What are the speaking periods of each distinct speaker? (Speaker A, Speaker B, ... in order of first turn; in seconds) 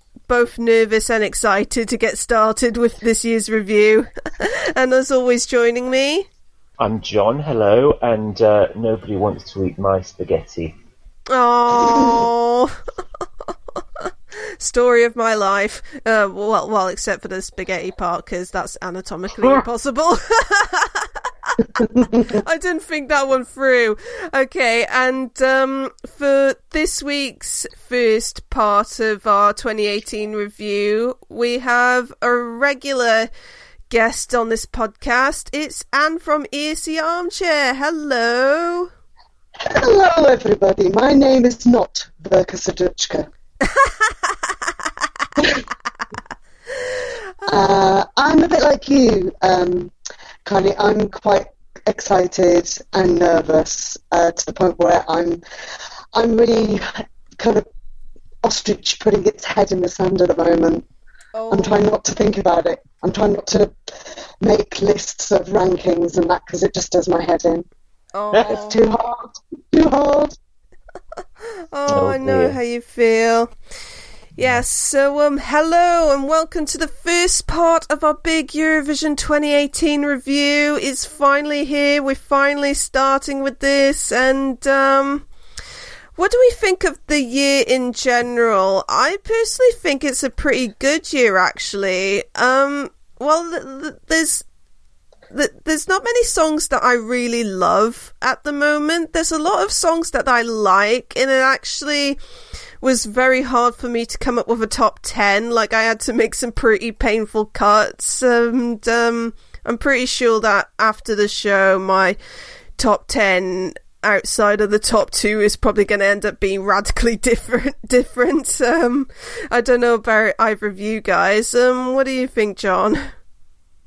Speaker A: 0.3-6.3, 11.3-12.8, 14.0-33.3, 33.9-38.9, 43.7-44.1, 61.3-61.9, 68.1-68.8, 71.7-73.5, 74.4-85.3, 86.2-94.4, 95.3-102.2, 102.8-112.2, 112.8-123.0
Speaker B: 6.8-10.8, 68.3-68.6, 71.9-72.6
Speaker C: 21.8-22.4, 39.6-43.3, 45.4-45.6, 47.5-49.9, 50.5-55.4, 56.1-57.7, 58.4-60.8, 61.5-63.7, 64.4-67.7, 68.4-70.4